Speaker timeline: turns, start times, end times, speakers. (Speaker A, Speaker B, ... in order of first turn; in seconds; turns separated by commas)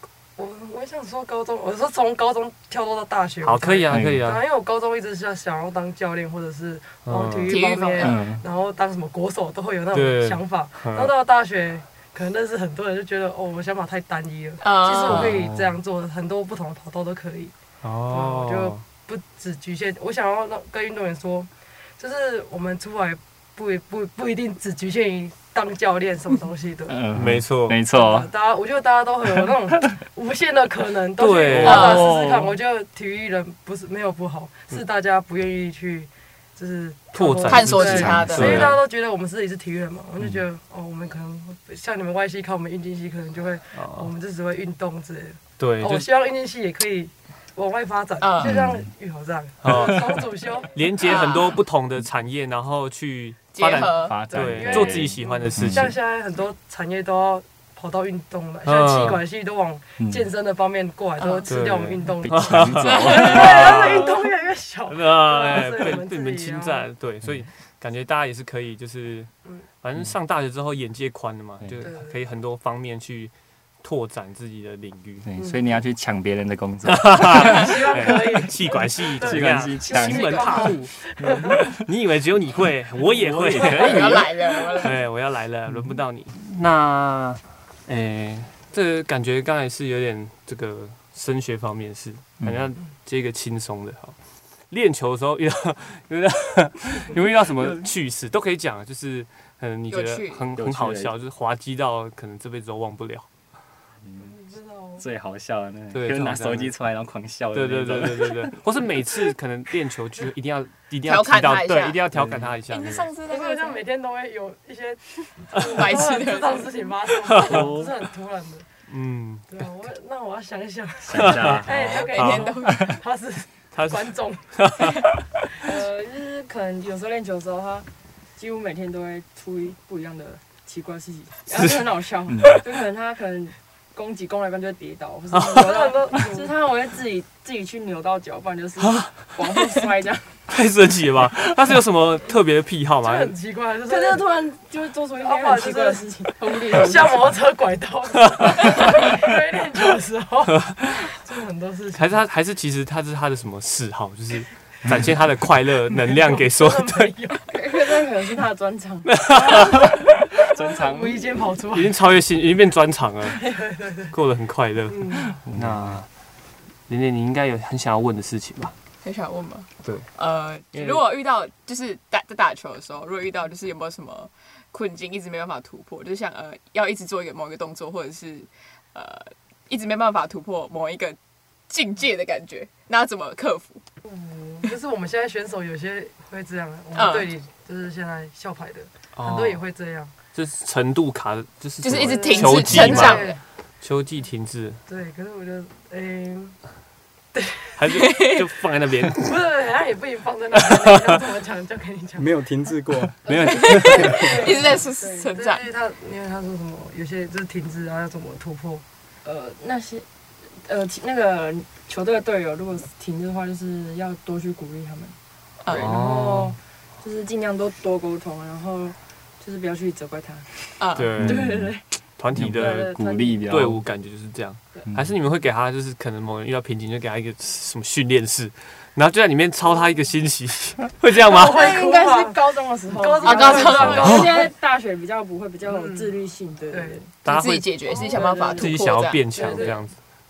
Speaker A: 0.4-17.5, Speaker B: 3.4-4.4, Speaker C: 3.9-4.2, Speaker B: 7.0-7.6, Speaker D: 7.5-8.2, Speaker C: 8.0-8.4, Speaker B: 9.9-11.1, Speaker D: 14.6-15.5, Speaker B: 15.1-15.6, Speaker B: 17.8-18.8, Speaker A: 18.1-27.0, Speaker C: 26.9-28.3, Speaker B: 27.1-27.8, Speaker A: 27.9-50.7, Speaker B: 31.2-32.5, Speaker D: 31.6-32.2, Speaker B: 37.1-38.8, Speaker D: 37.4-38.7, Speaker C: 37.9-38.7, Speaker B: 43.7-44.1, Speaker B: 45.6-46.1, Speaker D: 48.2-48.5, Speaker C: 48.4-48.9, Speaker B: 49.6-55.9, Speaker D: 51.0-51.6, Speaker D: 53.5-54.2, Speaker C: 53.7-55.9, Speaker A: 54.3-66.8, Speaker B: 58.6-59.2, Speaker C: 60.0-60.3, Speaker D: 61.2-61.5, Speaker B: 61.5-64.2, Speaker C: 62.2-64.0, Speaker D: 62.8-63.9, Speaker B: 64.9-69.3, Speaker B: 69.8-75.2, Speaker A: 71.8-72.1, Speaker C: 75.2-78.4, Speaker A: 75.4-75.6, Speaker B: 76.8-80.9, Speaker A: 77.4-81.6, Speaker C: 79.2-81.8, Speaker B: 81.6-94.2, Speaker C: 83.3-84.3, Speaker D: 83.3-85.0, Speaker B: 94.7-103.3, Speaker D: 99.9-100.5, Speaker C: 100.5-101.1, Speaker C: 104.0-104.3, Speaker A: 104.2-105.0, Speaker C: 105.0-108.5, Speaker B: 105.9-106.7, Speaker B: 107.5-113.1, Speaker D: 111.0-112.0, Speaker C: 112.1-112.5, Speaker D: 112.7-113.8, Speaker A: 113.3-118.7, Speaker D: 115.5-116.8, Speaker B: 117.2-117.7, Speaker C: 117.4-117.9, Speaker B: 118.9-119.5, Speaker A: 119.5-125.0, Speaker C: 121.1-122.0, Speaker B: 121.2-122.6, Speaker D: 121.7-123.0, Speaker B: 123.7-125.2, Speaker E: 125.6-140.3, Speaker B: 131.5-131.8, Speaker C: 132.3-132.6, Speaker B: 135.3-135.7, Speaker A: 135.5-136.5, Speaker B: 138.8-139.2, Speaker B: 140.5-143.3, Speaker A: 143.0-144.2, Speaker E: 143.8-147.3, Speaker A: 145.2-152.2, Speaker B: 148.4-148.8, Speaker B: 150.6-150.9, Speaker B: 151.9-157.1, Speaker A: 156.0-157.5, Speaker E: 157.5-159.9, Speaker B: 159.0-160.2, Speaker A: 160.4-161.9, Speaker C: 160.5-161.3, Speaker B: 161.7-163.4, Speaker A: 163.3-164.1, Speaker B: 164.1-166.1, Speaker A: 164.9-165.4, Speaker C: 165.4-166.0, Speaker B: 166.9-168.7, Speaker D: 169.0-181.2, Speaker B: 169.8-170.1, Speaker B: 170.7-171.1, Speaker D: 181.7-183.8, Speaker A: 184.0-190.1, Speaker D: 186.9-187.3, Speaker B: 189.1-189.6, Speaker B: 190.3-193.3, Speaker D: 191.8-193.4, Speaker A: 191.9-193.4, Speaker B: 193.8-194.8, Speaker A: 194.9-196.6, Speaker A: 197.3-197.8, Speaker B: 197.8-199.3, Speaker D: 198.0-198.4, Speaker A: 199.2-202.3, Speaker B: 200.6-201.1, Speaker F: 202.2-204.3, Speaker E: 203.3-205.3, Speaker C: 203.3-203.6, Speaker B: 203.4-204.0, Speaker D: 203.5-205.7, Speaker A: 204.4-204.8, Speaker A: 205.3-208.8, Speaker E: 209.2-210.1, Speaker E: 210.6-215.2, Speaker D: 215.6-216.0, Speaker E: 215.7-223.7, Speaker B: 215.7-216.6, Speaker D: 220.8-221.1, Speaker B: 220.9-221.5, Speaker C: 221.2-221.7, Speaker B: 222.2-231.6, Speaker C: 222.3-223.8, Speaker A: 231.2-234.5, Speaker E: 231.4-237.1, Speaker D: 233.2-234.2, Speaker B: 233.7-234.3, Speaker A: 235.6-236.2, Speaker A: 236.7-237.0, Speaker B: 237.2-237.7, Speaker D: 237.2-239.7, Speaker A: 237.9-239.8, Speaker E: 237.9-238.8, Speaker B: 238.5-239.9